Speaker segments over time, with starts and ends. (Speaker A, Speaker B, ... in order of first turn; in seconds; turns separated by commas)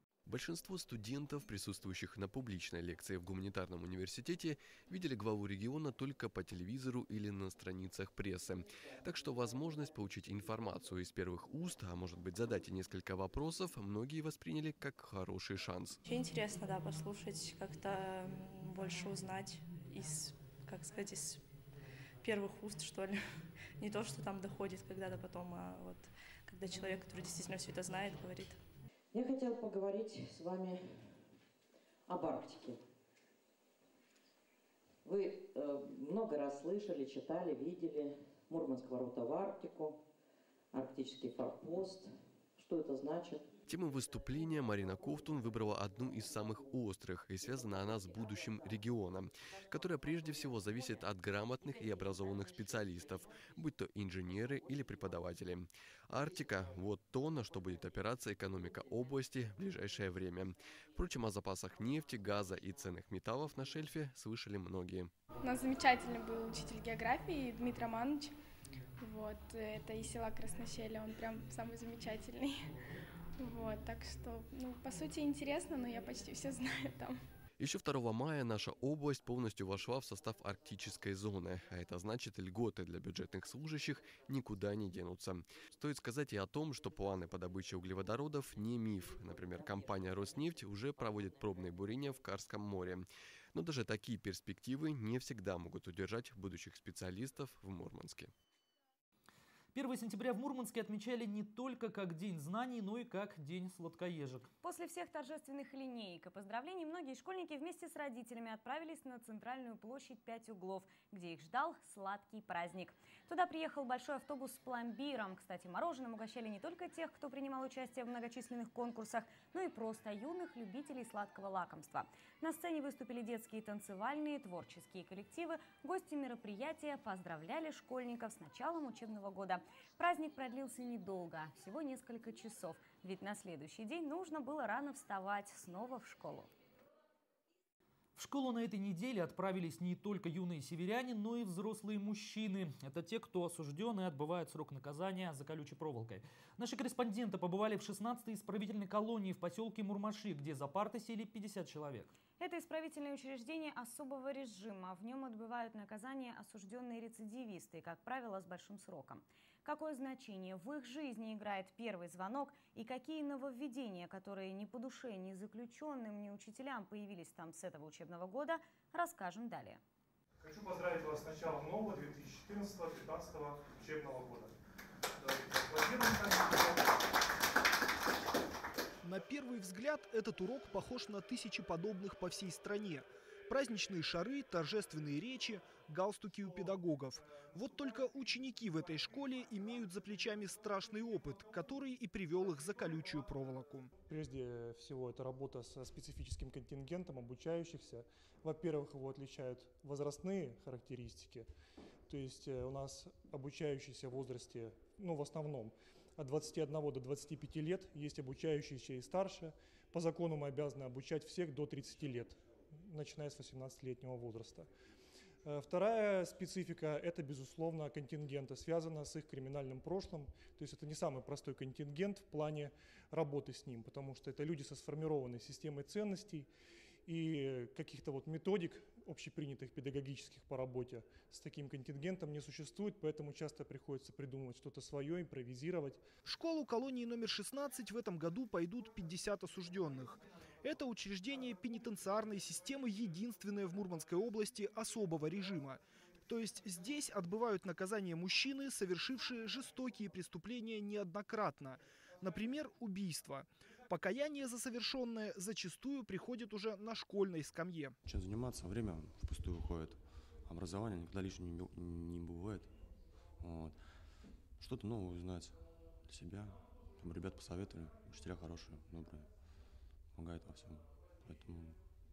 Speaker A: 0.2-16.0, Speaker B: 16.1-21.3, Speaker B: 22.4-22.8, Speaker B: 23.8-25.9, Speaker B: 26.5-28.5, Speaker C: 29.1-31.1, Speaker C: 32.1-32.8, Speaker C: 35.0-40.0, Speaker C: 40.7-43.5, Speaker A: 43.7-65.1, Speaker D: 65.4-68.3, Speaker D: 69.0-72.7, Speaker D: 73.4-77.2, Speaker A: 77.6-98.3, Speaker E: 99.7-104.5, Speaker F: 104.6-136.5, Speaker E: 138.2-152.1, Speaker F: 152.4-169.8, Speaker G: 170.4-174.5, Speaker G: 175.2-176.9, Speaker H: 179.0-193.9, Speaker G: 194.1-201.5, Speaker G: 202.1-214.7, Speaker G: 215.4-226.5, Speaker G: 227.1-236.1, Speaker H: 236.2-257.9, Speaker I: 258.0-262.7, Speaker I: 263.4-263.8, Speaker I: 264.6-269.3, Speaker I: 270.1-271.8